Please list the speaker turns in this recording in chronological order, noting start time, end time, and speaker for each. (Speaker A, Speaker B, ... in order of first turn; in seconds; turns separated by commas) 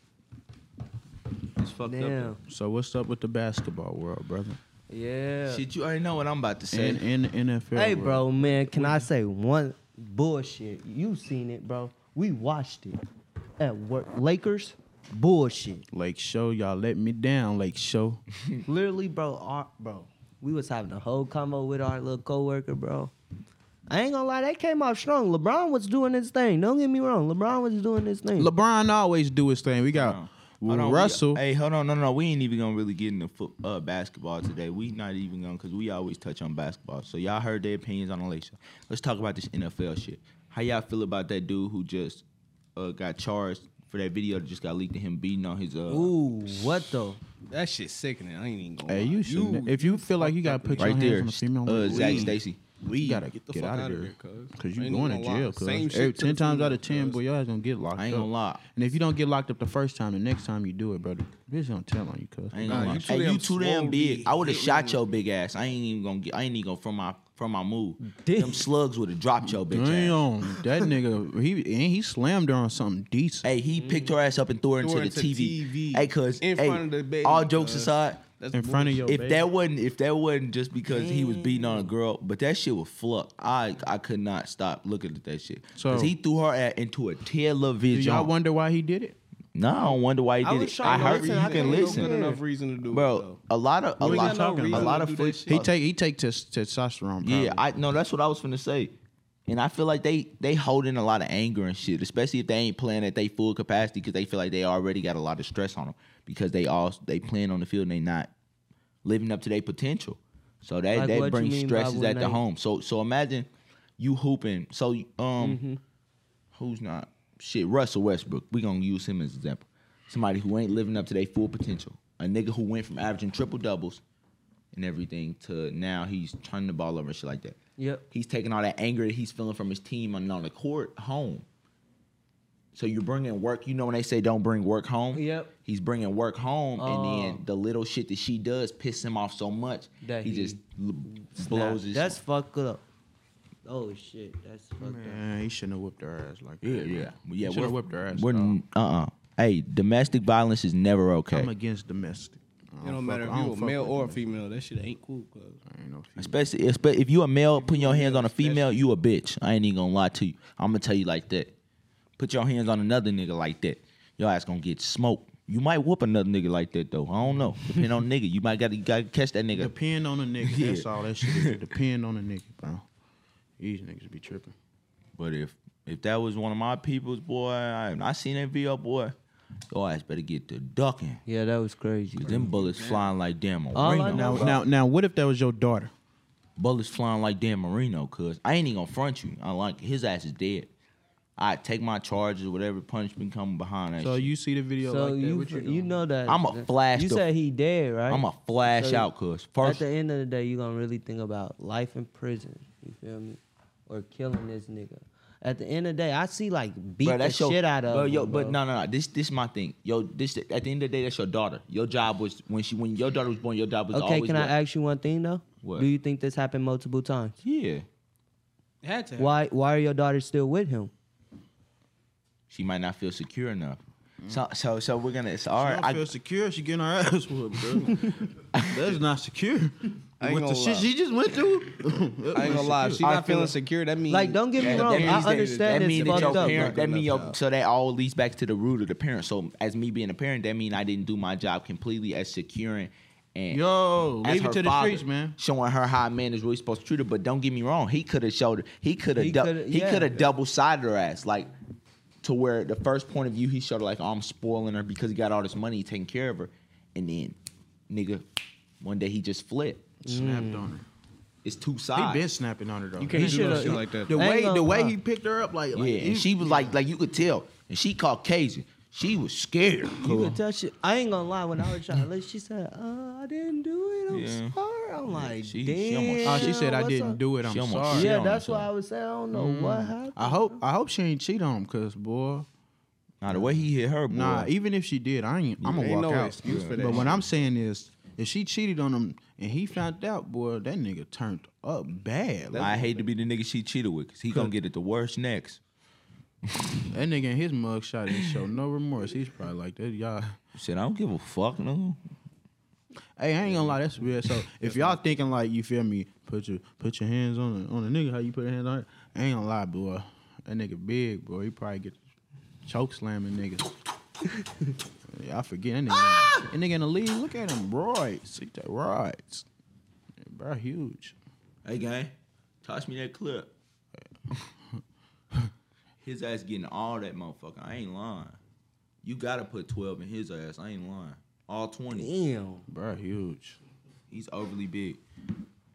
Speaker A: 1.6-2.4, Speaker B: 1.8-2.4, Speaker C: 2.4-4.6, Speaker B: 4.9-5.7, Speaker A: 5.5-7.0, Speaker C: 6.7-9.1, Speaker B: 7.8-13.0, Speaker B: 13.6-15.8, Speaker C: 15.9-18.2, Speaker B: 18.7-23.1, Speaker B: 23.9-28.5, Speaker C: 28.4-31.4, Speaker A: 29.9-42.2, Speaker A: 42.8-46.1, Speaker B: 45.9-47.2, Speaker D: 47.5-51.2, Speaker C: 48.9-52.4, Speaker A: 50.8-52.6, Speaker D: 51.8-57.2, Speaker C: 53.0-63.0, Speaker A: 58.0-58.6, Speaker A: 62.5-70.2, Speaker D: 62.7-65.0, Speaker B: 68.0-68.7, Speaker C: 69.6-73.5, Speaker A: 73.4-78.2, Speaker B: 73.8-74.1, Speaker D: 74.8-79.1, Speaker C: 78.5-79.5, Speaker A: 79.1-88.3, Speaker B: 80.9-81.9, Speaker C: 85.8-86.1, Speaker C: 87.9-89.2, Speaker A: 89.5-92.2, Speaker B: 90.4-92.4, Speaker D: 90.8-93.4, Speaker A: 92.9-95.7, Speaker C: 94.0-97.6, Speaker B: 94.0-94.8, Speaker D: 94.1-95.7, Speaker A: 97.2-99.0, Speaker A: 99.5-108.3, Speaker A: 109.0-115.6, Speaker B: 110.9-112.4, Speaker B: 115.4-115.8, Speaker A: 116.5-124.0, Speaker A: 124.7-127.6, Speaker B: 127.8-128.0, Speaker A: 128.1-131.4, Speaker A: 132.7-142.2, Speaker B: 135.1-135.5, Speaker B: 136.8-137.4, Speaker B: 140.0-140.6, Speaker B: 141.2-142.8, Speaker B: 143.7-145.2, Speaker C: 144.8-148.6, Speaker A: 146.6-151.5, Speaker C: 151.3-154.2, Speaker D: 152.8-155.6, Speaker C: 155.7-156.5, Speaker A: 156.2-161.5, Speaker D: 157.6-158.8, Speaker A: 162.2-169.7, Speaker C: 169.5-172.8, Speaker A: 170.4-171.6, Speaker C: 173.6-174.5, Speaker A: 175.2-179.2, Speaker A: 179.7-181.2, Speaker B: 181.3-182.6, Speaker A: 182.2-184.6, Speaker D: 182.6-183.1, Speaker B: 183.7-184.6, Speaker C: 184.1-185.9, Speaker A: 186.6-190.7, Speaker A: 191.4-194.3, Speaker C: 194.0-196.0, Speaker B: 194.8-199.1, Speaker A: 196.3-197.2, Speaker A: 198.1-199.8, Speaker B: 199.6-208.6, Speaker A: 207.0-214.6, Speaker B: 213.9-217.4, Speaker A: 215.6-215.9, Speaker A: 217.4-217.9, Speaker C: 218.8-219.4, Speaker B: 219.2-220.9, Speaker A: 222.5-226.1, Speaker C: 225.6-233.1, Speaker A: 228.5-229.0, Speaker D: 230.2-230.9, Speaker D: 232.3-237.4, Speaker A: 233.0-233.5, Speaker B: 234.1-236.8, Speaker A: 234.6-243.6, Speaker C: 243.5-245.4, Speaker A: 244.2-251.5, Speaker B: 249.2-250.3, Speaker A: 252.2-257.4, Speaker A: 257.9-258.2, Speaker A: 258.8-259.8, Speaker C: 260.0-260.9, Speaker B: 260.1-260.7, Speaker A: 261.4-262.3, Speaker C: 261.9-266.8, Speaker D: 263.0-264.2, Speaker B: 263.1-265.0, Speaker A: 265.7-270.4, Speaker B: 270.0-277.2, Speaker A: 274.1-274.6, Speaker A: 275.1-276.6, Speaker C: 276.2-278.1, Speaker A: 277.4-278.7, Speaker B: 277.9-280.6, Speaker C: 279.3-282.5, Speaker A: 283.2-284.5, Speaker C: 283.3-283.5, Speaker C: 284.1-292.8, Speaker A: 285.6-285.9, Speaker D: 285.7-287.2, Speaker A: 286.4-287.1, Speaker D: 292.5-293.1, Speaker A: 292.6-295.6, Speaker A: 296.5-296.8, Speaker C: 296.9-300.4, Speaker A: 300.6-302.0, Speaker C: 303.2-312.0, Speaker D: 304.6-305.0, Speaker C: 312.6-313.8, Speaker C: 315.1-319.5, Speaker C: 320.3-321.1, Speaker A: 321.6-323.5, Speaker A: 326.0-328.4, Speaker A: 329.0-332.1, Speaker B: 331.9-332.6, Speaker C: 332.7-333.6, Speaker A: 334.1-335.0